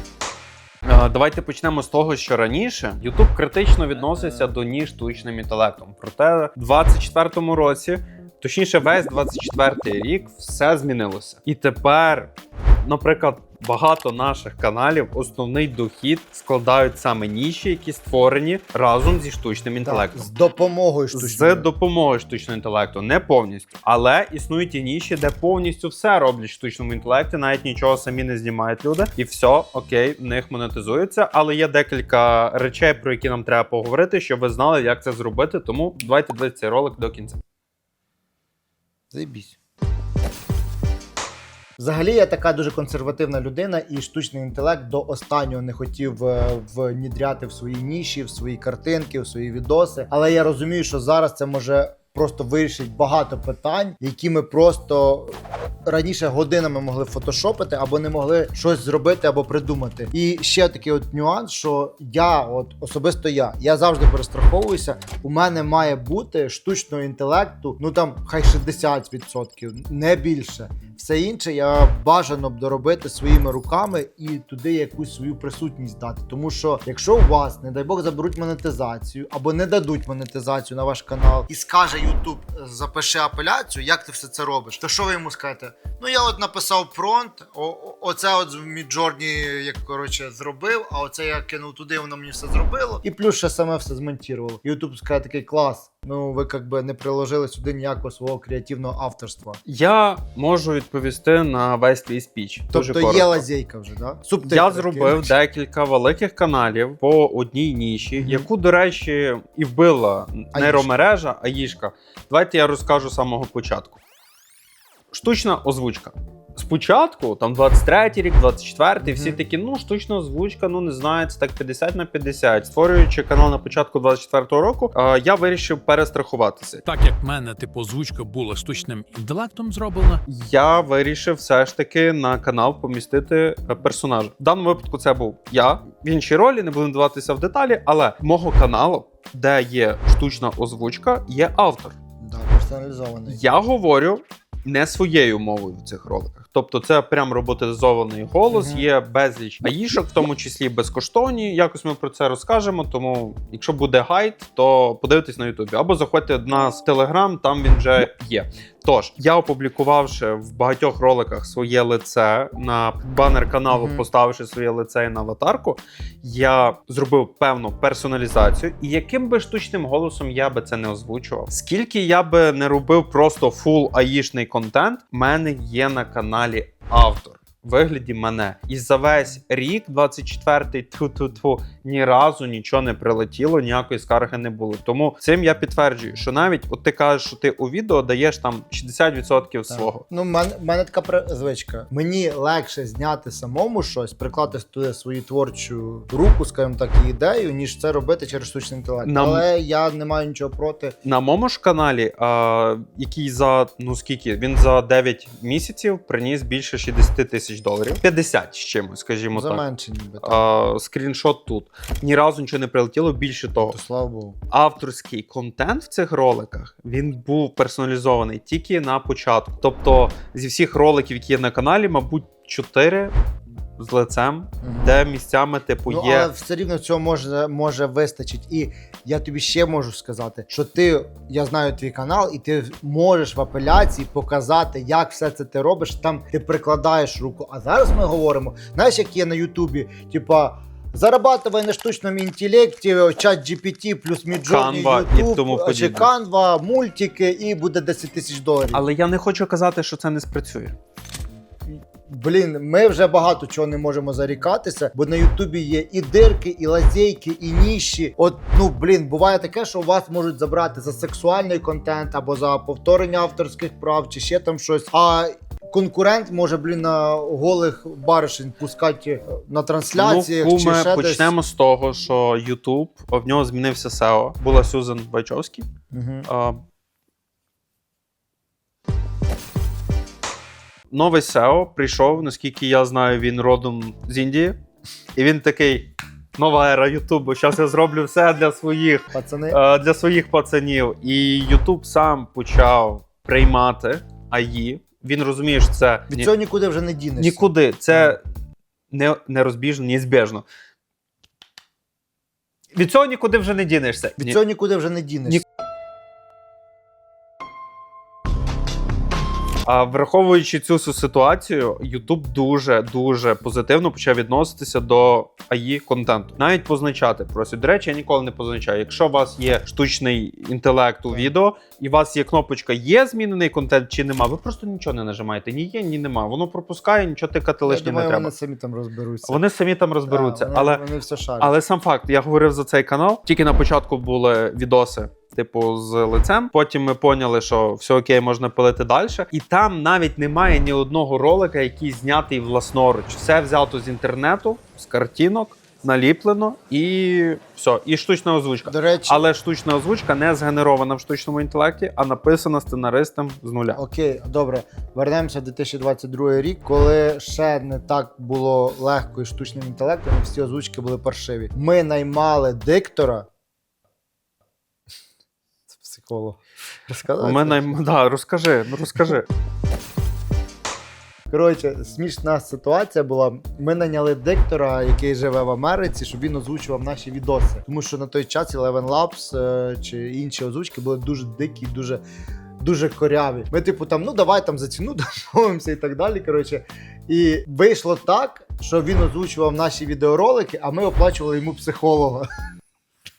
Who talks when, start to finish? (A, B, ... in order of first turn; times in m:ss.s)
0:00.8-0:12.3 A
0:04.1-0:04.4 B
0:12.8-0:20.3 A
0:19.8-0:21.7 B
0:21.1-0:37.4 A
0:39.1-0:39.6 B
0:41.8-1:39.6 B
1:39.6-1:43.4 A
1:42.7-1:45.3 B
1:44.4-1:54.0 A
1:48.2-1:48.5 B
1:50.5-1:50.9 B
1:55.1-2:06.8 A
1:59.0-1:59.4 B
2:06.8-2:10.2 C
2:10.3-2:22.0 A
2:22.2-2:23.4 B
2:23.3-3:10.0 A
2:28.5-2:28.9 B
2:43.7-2:44.0 B
3:09.7-3:21.0 B
3:19.0-3:19.5 A
3:21.0-3:29.6 A
3:29.3-3:30.5 B
3:30.2-3:33.8 A
3:33.7-3:34.4 B
3:34.5-3:43.1 A
3:43.8-3:46.3 A
3:44.6-3:44.9 B
3:45.9-4:08.8 B
4:04.5-4:06.1 A
4:08.7-4:10.8 A
4:11.6-4:31.3 B
4:30.0-4:35.7 A
4:35.9-4:36.3 B
4:36.3-4:36.6 A
4:40.9-4:44.6 A
4:45.2-4:56.3 A
4:49.1-4:49.6 B
4:56.1-4:58.2 B
4:57.2-4:58.2 A
4:58.9-5:00.4 A
5:02.7-5:04.4 A
5:04.2-5:05.4 B
5:09.6-5:28.3 A
5:27.6-5:29.4 B
5:29.2-5:30.8 A
5:30.1-5:31.5 B
5:31.4-5:53.8 A
5:48.6-5:49.2 B
5:53.7-6:03.3 B
6:05.7-6:07.8 B
6:07.2-6:09.2 A
6:11.3-6:22.0 B
6:22.6-6:32.3 B